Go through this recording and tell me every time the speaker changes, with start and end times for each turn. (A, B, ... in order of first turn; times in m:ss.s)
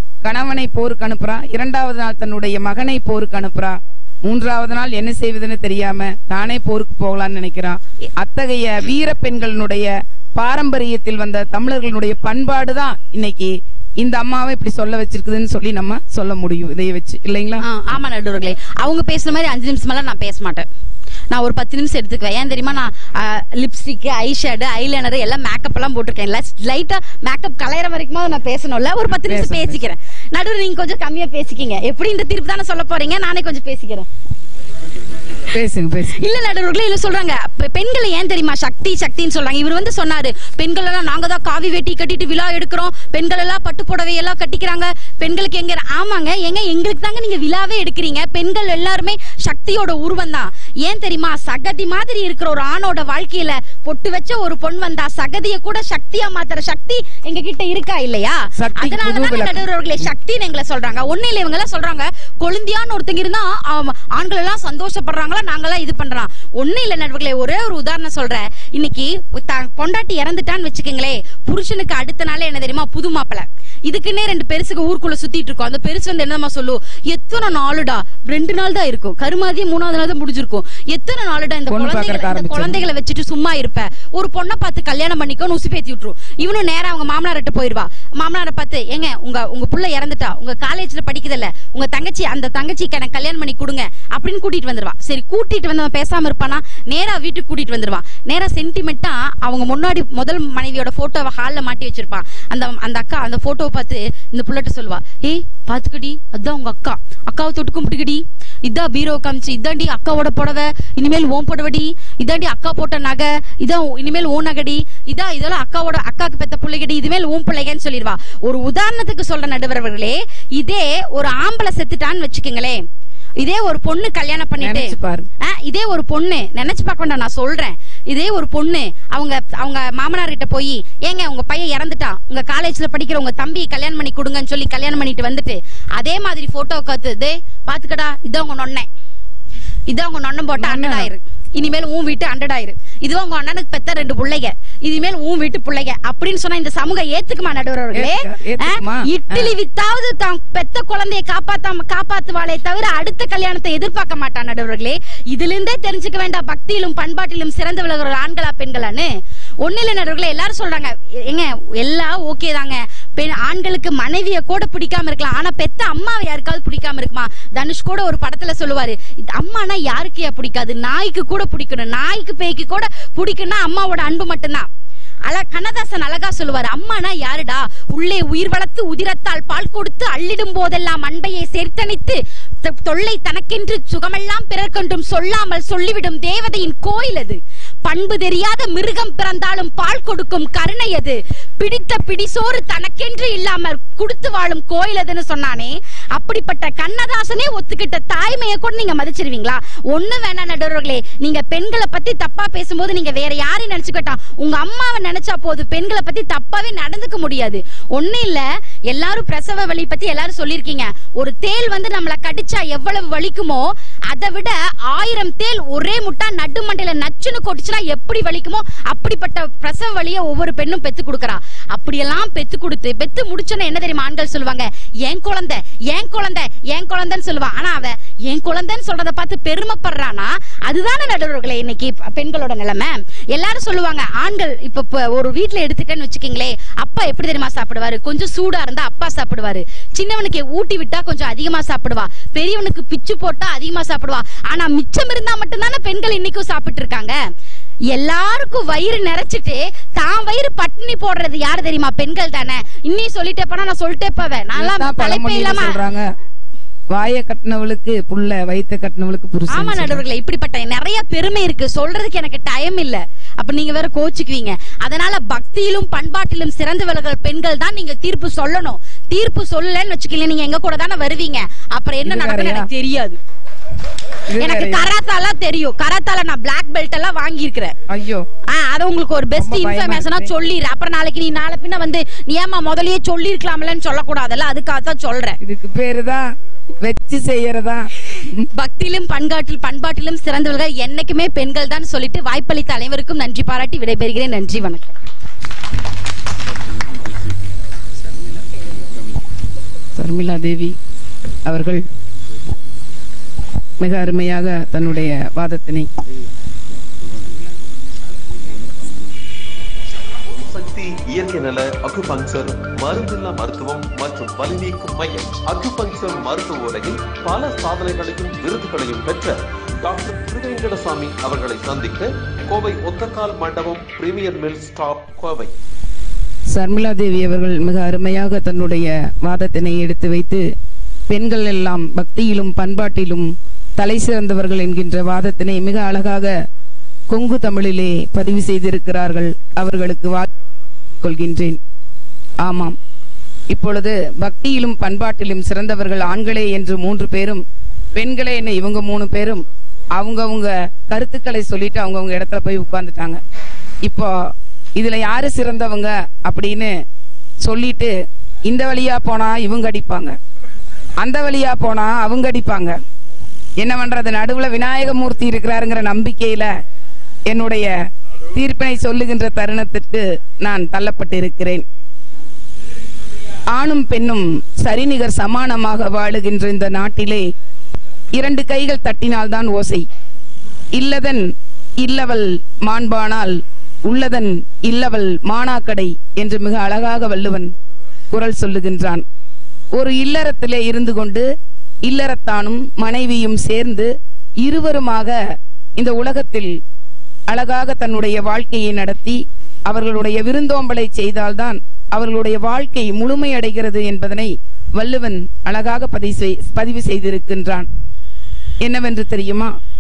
0:00.2-0:17.7 A
0:17.6-0:20.7 B
0:21.3-0:34.1 B
0:29.1-0:29.8 A
0:35.5-0:36.2 A
0:36.1-2:02.8 B
0:58.6-0:59.6 A
1:21.7-1:22.8 A
2:03.4-2:18.9 B
2:04.6-2:05.3 A
2:19.9-2:39.1 B
2:20.6-2:21.1 A
2:27.9-2:29.6 A
2:39.6-2:54.7 B
2:55.3-4:07.2 B
4:07.9-4:15.8 B
4:14.6-4:16.1 A
4:16.9-4:20.0 A
4:19.5-4:33.2 B
4:32.0-4:32.7 A
4:34.3-4:34.9 A
4:34.4-4:37.8 B
4:37.9-4:38.3 A
4:38.5-4:45.4 B
4:39.4-4:40.3 A
4:45.4-4:46.3 A
4:46.8-4:48.5 A
4:48.5-4:55.0 B
5:00.0-5:00.8 A
5:01.5-5:01.8 A
5:03.8-5:05.9 A
5:10.3-5:25.5 C
5:26.5-5:30.5 A
5:31.1-5:36.3 A
5:37.1-5:40.3 A
5:41.0-5:41.6 A
5:42.4-5:42.8 A
5:43.5-5:47.4 A
5:48.0-5:49.4 A
5:50.0-5:53.2 A
5:53.9-5:54.1 A
5:54.8-5:56.7 A
5:57.4-5:57.9 A
5:58.5-6:00.2 A
6:01.0-6:02.8 A
6:03.6-6:06.5 A
6:07.3-6:07.7 A
6:08.3-6:11.6 A
6:13.6-6:17.2 A
6:18.2-6:19.8 A
6:20.8-6:21.3 A
6:21.8-6:27.5 A
6:28.1-6:29.0 A
6:29.7-6:31.3 A
6:31.9-6:33.9 A
6:34.4-6:35.2 A
6:35.8-6:36.5 A
6:37.3-6:47.7 A
6:48.6-6:49.5 A